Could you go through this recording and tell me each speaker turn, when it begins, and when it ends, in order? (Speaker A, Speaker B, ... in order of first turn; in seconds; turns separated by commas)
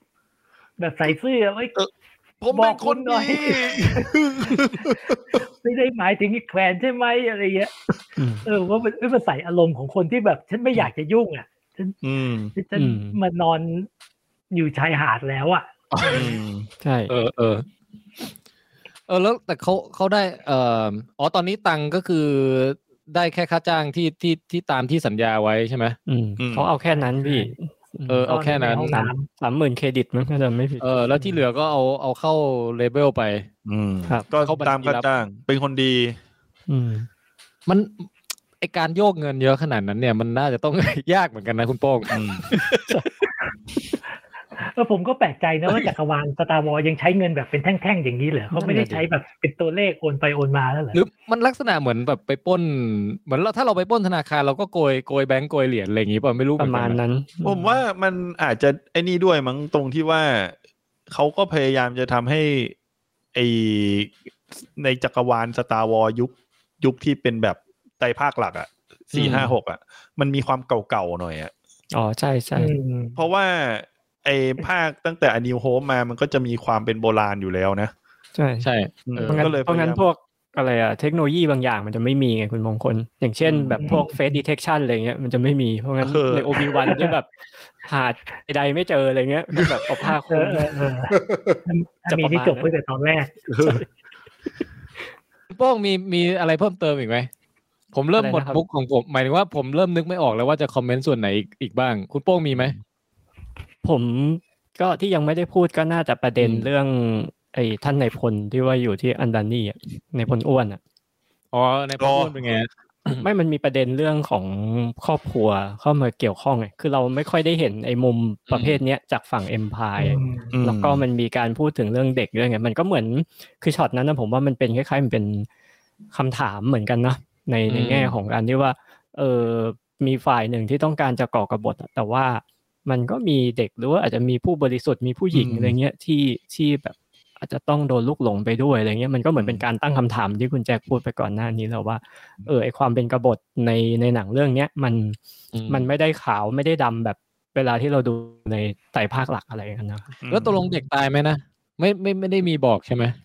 Speaker A: 0.8-1.8, Speaker B: 2.4-5.4, Speaker A: 2.5-4.6, Speaker A: 5.4-7.7, Speaker C: 8.2-8.4, Speaker A: 8.4-12.0, Speaker B: 12.0-12.5, Speaker A: 12.6-13.9, Speaker C: 12.8-13.2, Speaker A: 14.5-16.2, Speaker D: 15.9-16.2, Speaker B: 16.0-16.7, Speaker C: 16.8-17.1, Speaker D: 17.1-17.7, Speaker D: 19.1-26.0, Speaker C: 26.1-31.3, Speaker B: 26.4-26.7, Speaker A: 26.9-27.5, Speaker D: 28.1-28.9, Speaker A: 28.3-29.3, Speaker D: 30.8-33.5, Speaker B: 33.7-36.2, Speaker D: 34.3-35.1, Speaker C: 36.7-37.1, Speaker D: 37.7-38.1, Speaker D: 38.6-42.2, Speaker B: 42.1-43.0, Speaker A: 44.6-51.0, Speaker C: 48.5-49.1, Speaker D: 50.9-57.0, Speaker C: 56.6-57.8, Speaker B: 57.4-60.5, Speaker B: 61.1-62.8, Speaker B: 63.3-64.2, Speaker B: 64.8-71.5, Speaker D: 69.1-69.5, Speaker C: 71.9-72.7, Speaker A: 72.6-73.2, Speaker B: 73.2-77.9, Speaker C: 78.3-78.7, Speaker D: 78.6-79.5, Speaker B: 79.1-80.0, Speaker C: 79.2-87.3, Speaker B: 83.5-83.8, Speaker A: 83.8-84.4, Speaker B: 86.0-86.8, Speaker A: 86.8-87.1, Speaker C: 87.8-90.9, Speaker A: 90.3-93.3, Speaker B: 91.1-91.6, Speaker C: 92.1-92.7, Speaker B: 93.5-93.8, Speaker D: 95.5-97.3, Speaker D: 97.9-102.8, Speaker C: 98.2-98.6, Speaker C: 103.8-110.8, Speaker D: 106.4-106.7, Speaker D: 111.5-113.2, Speaker B: 112.0-112.4, Speaker C: 113.2-125.5, Speaker D: 118.5-118.8, Speaker A: 120.0-120.5, Speaker B: 120.5-121.0, Speaker C: 126.1-150.1, Speaker D: 127.7-128.2, Speaker B: 135.3-135.8, Speaker B: 139.4-139.6, Speaker D: 145.5-145.9, Speaker B: 150.2-150.6, Speaker D: 150.3-153.2